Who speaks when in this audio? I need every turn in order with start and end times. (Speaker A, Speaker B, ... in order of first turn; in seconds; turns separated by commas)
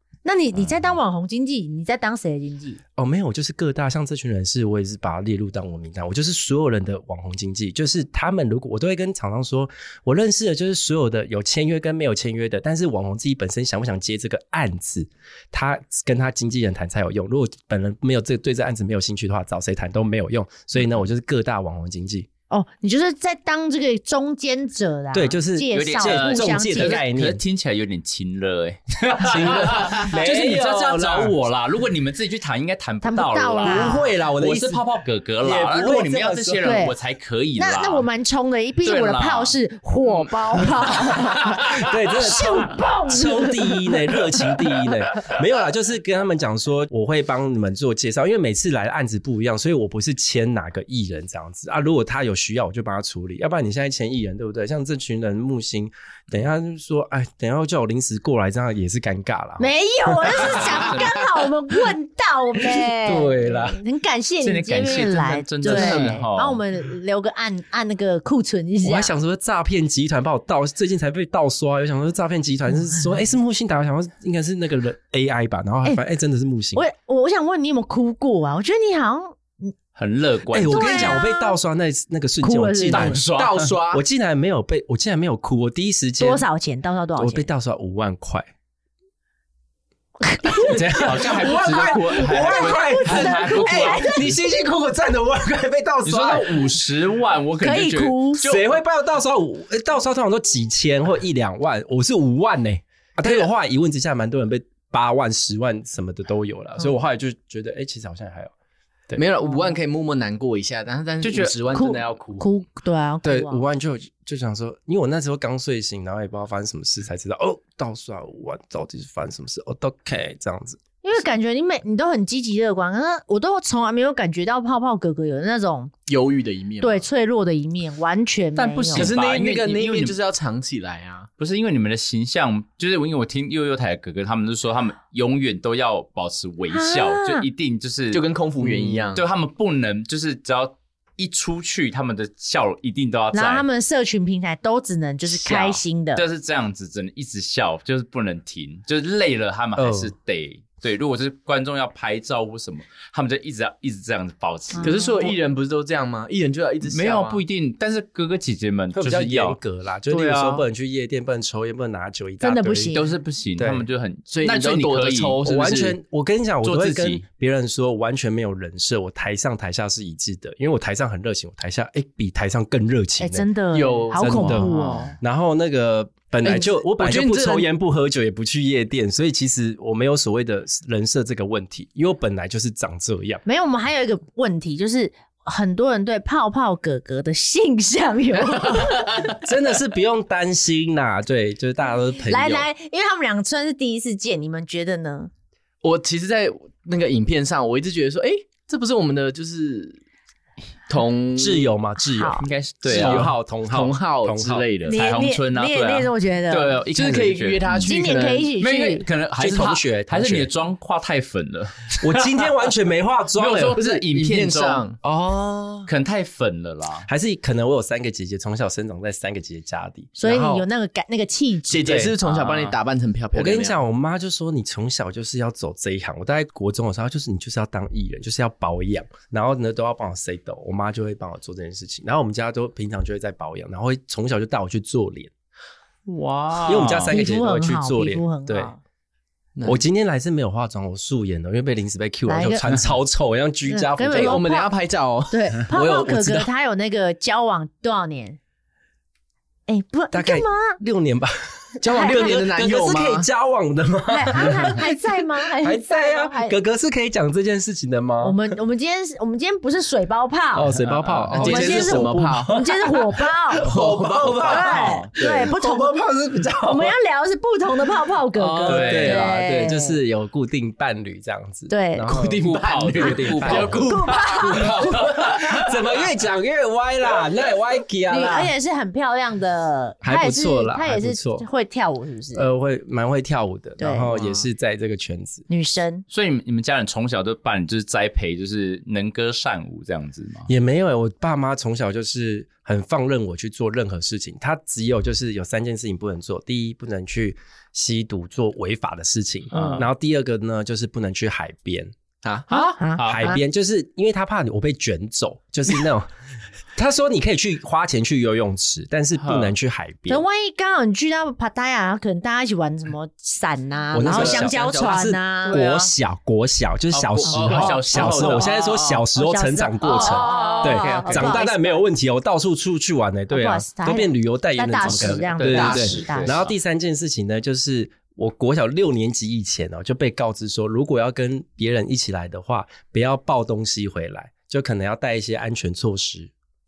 Speaker A: 0.2-2.8, Speaker B: 3.0-22.3, Speaker A: 22.5-27.0, Speaker B: 25.1-27.4, Speaker C: 25.7-38.1, Speaker B: 29.2-31.4, Speaker A: 33.0-34.1, Speaker B: 33.6-34.8, Speaker B: 35.4-36.8, Speaker A: 36.6-36.9, Speaker A: 37.6-44.1, Speaker C: 38.8-41.9, Speaker B: 41.4-61.1, Speaker A: 59.6-69.1, Speaker C: 60.5-61.1, Speaker B: 62.6-63.8, Speaker C: 64.4-66.6, Speaker B: 65.7-66.0, Speaker B: 68.8-76.8, Speaker A: 76.8-79.7, Speaker C: 80.0-81.2, Speaker B: 80.5-83.2, Speaker A: 80.7-81.6, Speaker A: 82.4-83.2, Speaker C: 82.9-83.8, Speaker D: 83.2-84.0, Speaker B: 83.9-86.5, Speaker A: 86.2-87.5, Speaker B: 87.2-88.5, Speaker A: 90.2-94.3, Speaker B: 90.7-96.8, Speaker C: 90.8-94.3, Speaker C: 96.0-98.7, Speaker A: 97.6-98.5, Speaker B: 98.4-108.5, Speaker D: 109.2-112.5, Speaker C: 111.2-111.6, Speaker A: 111.7-113.6, Speaker B: 113.2-120.8, Speaker A: 121.0-125.9, Speaker D: 126.1-127.1, Speaker A: 126.8-129.1, Speaker C: 128.6-130.2, Speaker D: 128.9-131.3, Speaker C: 131.4-143.7, Speaker A: 136.7-137.5, Speaker D: 138.1-139.2, Speaker A: 143.3-146.2, Speaker C: 145.3-155.0, Speaker B: 149.8-150.1, Speaker A: 154.7-155.3, Speaker D: 154.8-157.4, Speaker C: 156.8-160.7, Speaker B: 158.9-163.0, Speaker A: 162.4-163.1, Speaker C: 162.9-165.4, Speaker B: 163.6-163.9, Speaker D: 164.3-166.0, Speaker B: 165.4-173.5, Speaker C: 166.6-167.2, Speaker A: 173.2-175.1, Speaker D: 173.7-175.1, Speaker B: 174.2-183.4, Speaker C: 174.7-175.1, Speaker D: 176.4-177.7, Speaker A: 183.4-189.2, Speaker B: 189.3-192.7, Speaker A: 192.2-195.3, Speaker D: 195.8-200.0, Speaker D: 200.9-201.7, Speaker B: 201.4-204.7, Speaker A: 202.1-202.4, Speaker C: 202.4-203.3, Speaker D: 202.9-205.0, Speaker C: 204.8-207.9, Speaker A: 204.9-206.8, Speaker D: 206.9-208.5, Speaker A: 207.8-209.1, Speaker C: 208.6-212.5, Speaker B: 209.4-210.5, Speaker B: 212.0-213.8, Speaker C: 213.3-214.9, Speaker D: 213.7-215.0, Speaker B: 215.1-215.9, Speaker C: 215.9-217.1, Speaker B: 217.1-220.7, Speaker A: 220.2-222.1, Speaker D: 221.7-223.8, Speaker B: 221.8-222.2, Speaker C: 222.2-222.8, Speaker B: 223.3-235.3, Speaker C: 236.1-237.2, Speaker B: 236.7-238.7, Speaker A: 237.1-238.8, Speaker D: 239.6-239.8, Speaker B: 239.7-244.4, Speaker A: 242.3-242.7, Speaker A: 243.7-244.7, Speaker D: 244.1-245.4, Speaker A: 245.3-248.4, Speaker B: 245.7-246.5, Speaker A: 249.7-250.8, Speaker B: 250.1-258.4, Speaker D: 251.8-253.3, Speaker A: 251.8-252.4, Speaker A: 254.1-256.6, Speaker A: 258.2-260.7, Speaker B: 260.5-266.9, Speaker C: 260.8-261.5, Speaker D: 261.3-262.5, Speaker A: 261.4-263.7, Speaker D: 263.6-264.8, Speaker A: 264.4-265.9, Speaker C: 264.8-265.1, Speaker A: 266.6-270.0, Speaker C: 268.5-269.4, Speaker B: 268.7-278.5, Speaker A: 271.7-272.1, Speaker D: 272.1-275.1, Speaker C: 272.4-275.7, Speaker A: 273.6-274.8, Speaker A: 278.1-282.5, Speaker B: 280.0-281.5, Speaker B: 282.3-285.4, Speaker A: 283.8-284.1, Speaker D: 284.1-284.4, Speaker A: 285.5-286.1, Speaker C: 286.1-290.5, Speaker B: 290.5-301.9, Speaker C: 299.5-299.9, Speaker D: 302.2-302.5, Speaker C: 302.5-303.4, Speaker A: 302.8-303.4, Speaker B: 303.0-306.1, Speaker B: 306.8-310.2, Speaker C: 309.2-309.5, Speaker A: 310.1-315.6, Speaker B: 313.9-336.3, Speaker D: 314.0-315.1, Speaker C: 315.5-315.9, Speaker C: 316.9-319.1, Speaker A: 317.3-318.4, Speaker D: 317.4-318.3, Speaker A: 319.2-321.8, Speaker C: 319.9-321.4, Speaker A: 323.3-326.3, Speaker C: 324.9-326.5, Speaker D: 325.5-326.0